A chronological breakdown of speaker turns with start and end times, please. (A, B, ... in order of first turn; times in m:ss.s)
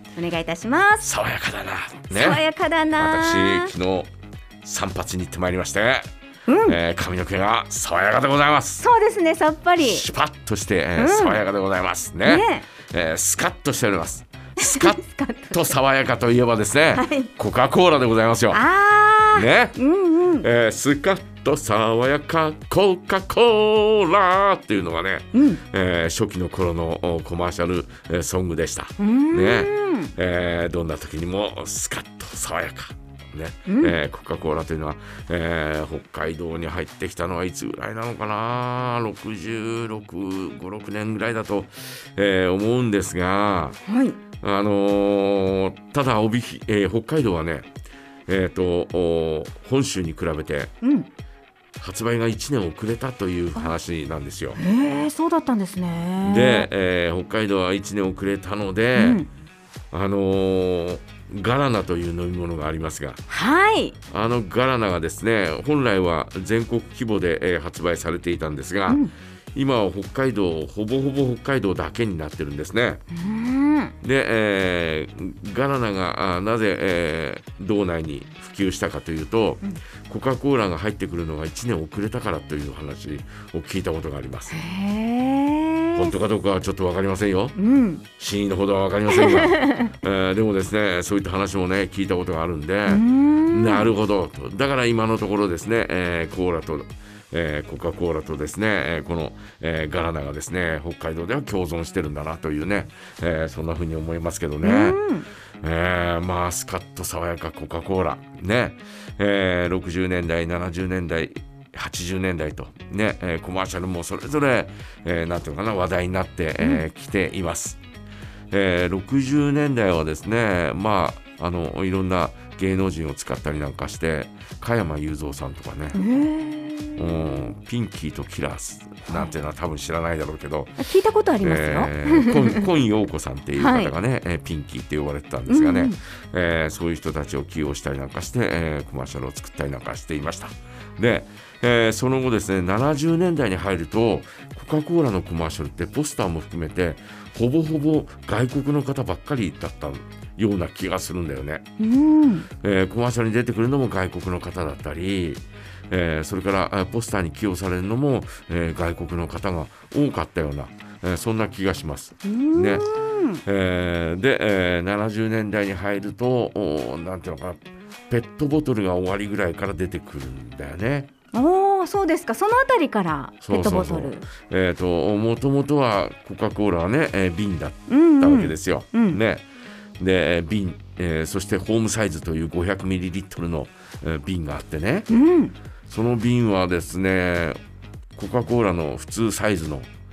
0:00.2-0:01.1 A
0:01.0-0:02.4 B
0:02.1-0:03.7 A
0:03.0-0:04.1 B
0:04.6-0:06.1 B
0:06.5-0:06.8 A
0:06.6-0:08.9 B
0:08.8-0:10.0 A
0:09.8-0:15.0 B
0:11.0-0:11.4 A
0:12.2-0:12.7 A
0:14.6-0:15.7 A
0:15.5-0:18.6 B
0:16.9-0:17.3 A
0:18.5-0:20.5 A
0:19.3-0:19.8 B
0:20.4-0:43.8 B
0:25.3-0:25.6 A
0:29.0-0:30.1 A
0:33.7-0:33.9 A
0:43.9-0:44.2 A
0:44.4-0:47.7 B
0:48.3-0:50.7 B
0:50.8-0:51.1 A
0:51.8-0:54.6 B
0:54.6-0:56.7 A
0:56.2-0:59.2 B
0:58.9-0:59.3 A
0:59.9-1:03.2 B
1:03.3-1:03.9 A
1:04.1-1:13.0 B
1:08.9-1:09.1 A
1:13.1-1:13.9 A
1:14.0-1:24.6 B
1:24.5-1:26.1 A
1:25.9-1:27.6 B
1:27.6-1:28.0 A
1:28.2-1:45.0 B
1:29.1-1:29.9 A
1:32.8-1:33.9 A
1:44.6-1:45.3 A
1:45.6-1:57.8 B
1:58.5-2:06.0 B
2:05.9-2:07.3 A
2:07.0-2:10.8 B
2:09.1-2:09.3 A
2:10.8-2:12.6 A
2:11.4-2:31.6 B
2:13.6-2:13.9 A
2:15.5-2:16.0 A
2:31.8-2:32.5 A
2:32.6-2:42.8 B
2:42.2-2:43.4 A
2:43.4-2:51.1 B
2:51.3-2:54.3 A
2:53.4-2:59.4 B
2:57.9-2:59.2 A
3:00.0-3:05.1 B
3:05.1-3:05.5 A
3:05.9-3:07.6 B
3:08.2-3:09.9 B